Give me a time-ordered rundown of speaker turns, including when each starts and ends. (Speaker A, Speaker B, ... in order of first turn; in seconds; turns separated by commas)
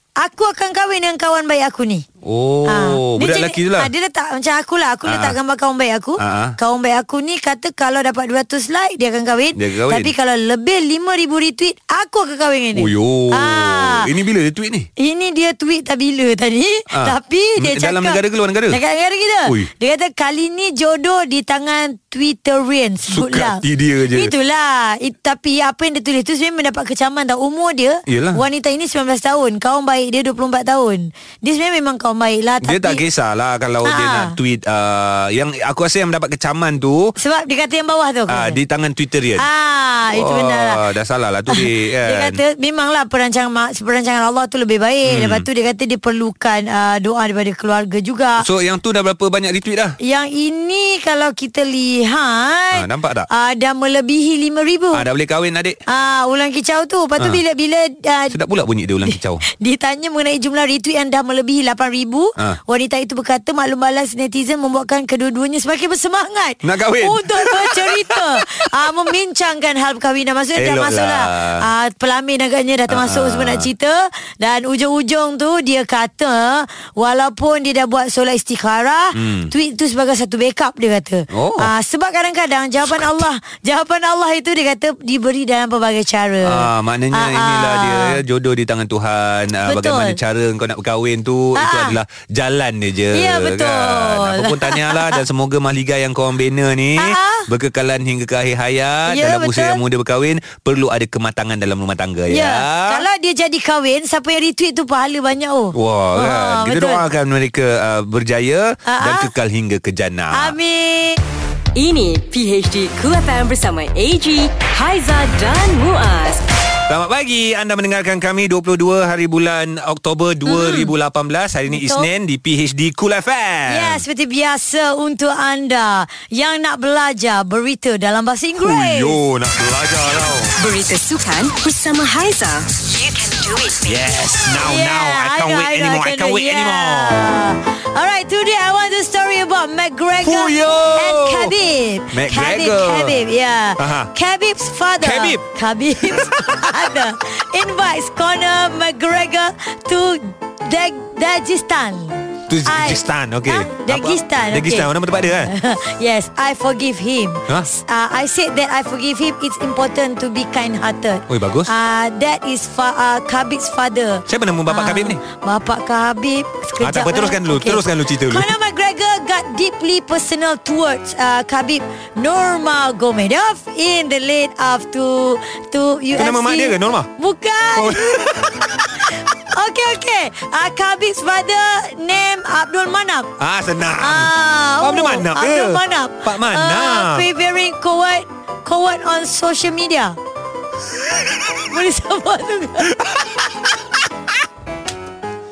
Speaker A: 0.2-2.0, Speaker B: 2.2-3.9, Speaker A: 2.6-14.1, Speaker B: 5.1-5.4, Speaker B: 6.2-6.6, Speaker B: 9.6-10.1, Speaker B: 12.8-14.9, Speaker A: 15.0-18.2, Speaker B: 16.9-18.8, Speaker A: 18.7-33.0, Speaker B: 23.1-24.3, Speaker B: 28.1-28.4, Speaker B: 32.6-37.2, Speaker A: 33.9-34.3, Speaker A: 37.2-38.6, Speaker B: 38.3-39.5, Speaker A: 39.4-40.8, Speaker B: 40.1-42.4, Speaker A: 41.5-48.4, Speaker B: 45.0-45.5, Speaker B: 48.4-50.0, Speaker A: 50.0-55.0, Speaker B: 52.7-53.3, Speaker B: 54.9-55.8, Speaker A: 55.9-58.4, Speaker B: 58.3-59.4, Speaker A: 59.0-88.2, Speaker B: 66.6-68.7, Speaker B: 70.6-71.7, Speaker B: 72.9-73.7, Speaker B: 79.1-79.5, Speaker B: 81.3-81.7, Speaker B: 86.5-103.0, Speaker A: 89.7-90.2, Speaker A: 91.6-91.9, Speaker A: 93.1-95.2, Speaker A: 97.0-97.5, Speaker A: 99.1-99.8, Speaker A: 102.3-107.0, Speaker B: 105.7-110.5, Speaker A: 108.9-109.3, Speaker A: 110.3-111.2, Speaker C: 111.8-116.4, Speaker B: 116.9-124.0, Speaker A: 120.5-120.9, Speaker A: 121.7-122.1, Speaker A: 123.7-129.2, Speaker B: 128.6-130.5, Speaker C: 130.6-134.2, Speaker B: 133.9-137.3, Speaker A: 134.6-154.9, Speaker B: 140.2-141.5, Speaker B: 142.1-143.2, Speaker B: 143.8-144.1, Speaker B: 145.0-145.4, Speaker B: 146.0-146.9, Speaker B: 152.5-155.5, Speaker A: 155.5-178.3, Speaker B: 161.3-161.7, Speaker B: 164.3-165.2, Speaker B: 166.8-168.5, Speaker B: 176.1-177.1, Speaker B: 177.8-178.8, Speaker A: 179.5-183.3, Speaker B: 183.4-187.3, Speaker A: 184.0-190.2, Speaker A: 191.7-192.9, Speaker B: 192.8-193.4